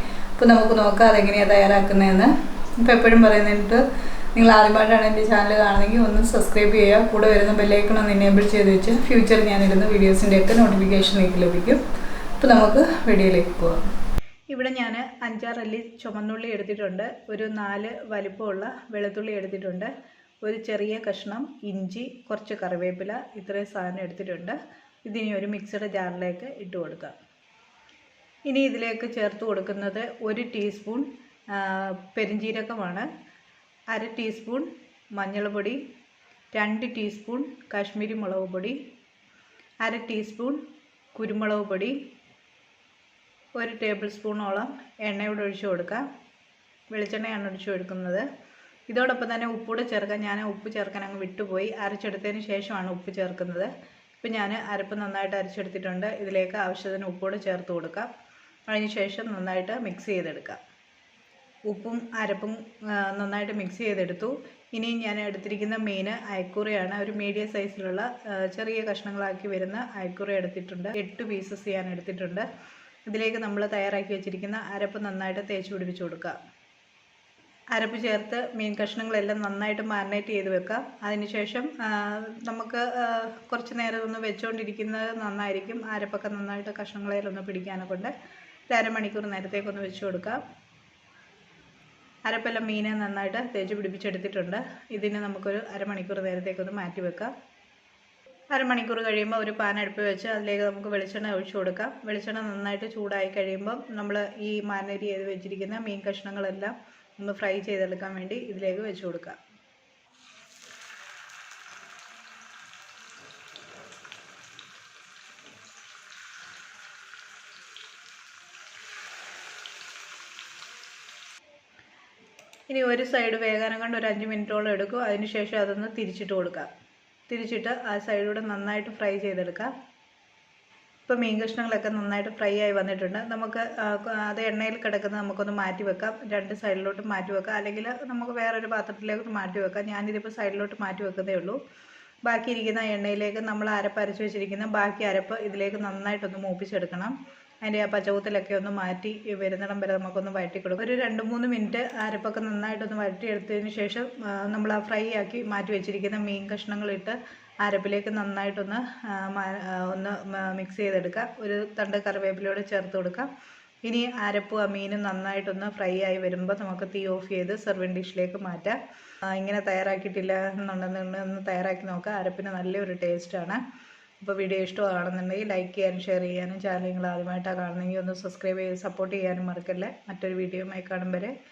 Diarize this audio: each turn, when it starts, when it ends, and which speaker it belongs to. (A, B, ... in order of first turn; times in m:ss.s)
0:00.4-0:03.8 A
0:04.4-0:11.8 A
0:12.4-0:13.8 A
0:14.5-0:19.9 A
0:20.4-0:27.2 A
0:28.5-0:33.1 A
0:33.9-0:35.8 A
0:36.5-0:38.8 A
0:39.8-0:40.6 A
0:41.2-0:42.0 A
0:43.6-0:46.1 A
0:46.9-0:48.2 A
0:48.9-0:58.1 A
0:58.7-1:00.6 A
1:01.7-1:12.5 A
1:13.1-1:16.4 A
1:17.7-1:28.1 A
1:28.7-1:30.4 A
1:32.3-1:37.3 A
1:38.5-1:49.4 A
2:02.7-2:06.7 A
2:07.3-2:09.7 A
2:11.1-2:21.6 A
2:22.2-2:43.3 A
2:43.8-2:48.8 A
2:49.3-2:53.6 A
2:54.2-3:01.3 A